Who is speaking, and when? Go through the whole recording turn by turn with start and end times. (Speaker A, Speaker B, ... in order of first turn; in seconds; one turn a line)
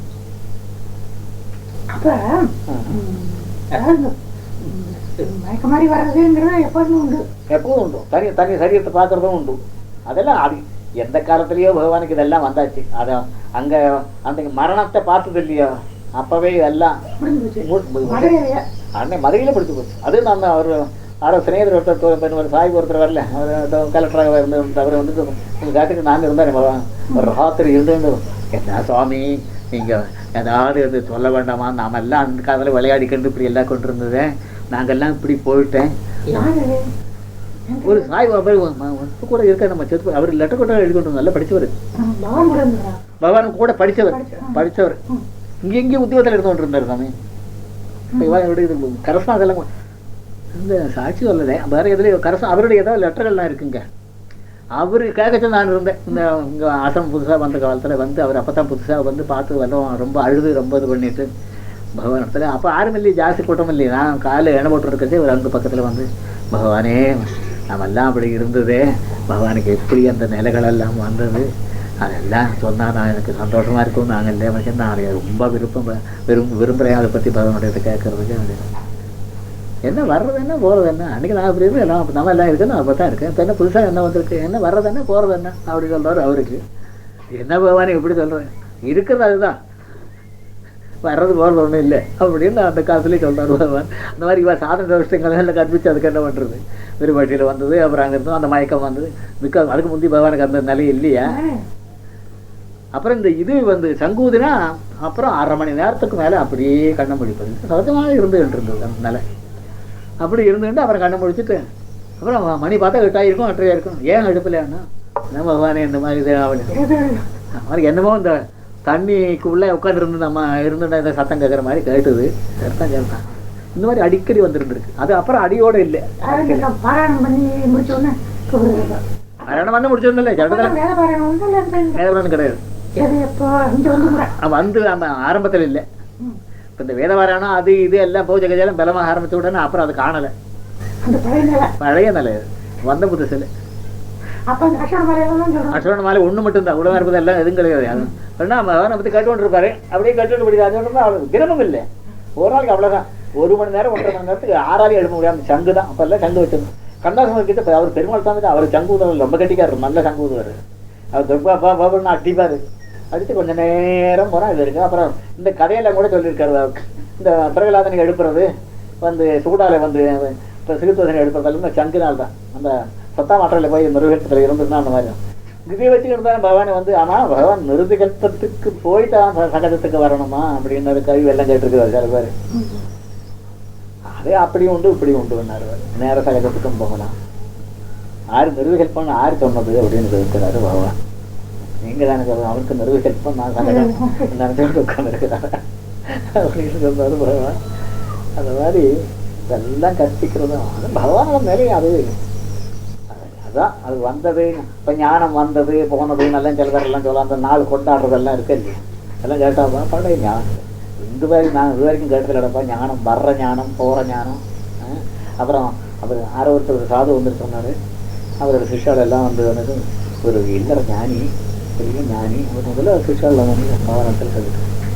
Speaker A: 1.9-7.2
Speaker B: 2.7-2.9
Speaker B: 7.5-17.0
Speaker A: 17.2-18.6
Speaker B: 17.6-18.3
Speaker B: 19.0-35.9
Speaker A: 36.3-36.8
Speaker A: 37.7-38.1
Speaker B: 37.8-41.7
Speaker A: 42.0-43.0
Speaker B: 43.2-45.0
Speaker A: 44.1-45.2
Speaker B: 45.6-47.1
Speaker A: 48.1-48.4
Speaker B: 48.2-49.6
Speaker B: 50.5-53.8
Speaker B: 54.8-61.3
Speaker B: 62.0-71.5
Speaker B: 72.0-78.7
Speaker B: 79.9-86.6
Speaker B: 87.3-89.5
Speaker B: 91.0-101.4
Speaker A: 101.2-101.6
Speaker B: 103.0-109.2
Speaker B: 110.2-111.6
Speaker B: 112.2-116.7
Speaker A: 116.7-117.3
Speaker B: 117.5-126.7
Speaker A: 126.2-129.0
Speaker B: 129.5-130.8
Speaker A: 130.4-132.0
Speaker B: 131.9-132.6
Speaker A: 133.0-134.3
Speaker B: 134.1-135.8
Speaker B: 136.8-140.3
Speaker A: 141.0-141.7
Speaker B: 141.8-143.5
Speaker A: 144.5-145.9
Speaker B: 145.7-151.8
Speaker B: 152.4-160.6
Speaker B: 161.1-162.6
Speaker B: 163.1-168.5
Speaker B: 169.0-175.2
Speaker B: 175.7-182.3
Speaker A: 182.5-182.8
Speaker B: 184.2-187.1
Speaker B: 188.3-190.9
Speaker B: 191.8-197.6
Speaker A: 193.6-194.3
Speaker B: 198.4-198.9
Speaker B: 199.5-202.1
Speaker B: 203.1-217.7
Speaker B: 218.4-221.3
Speaker B: 221.8-224.7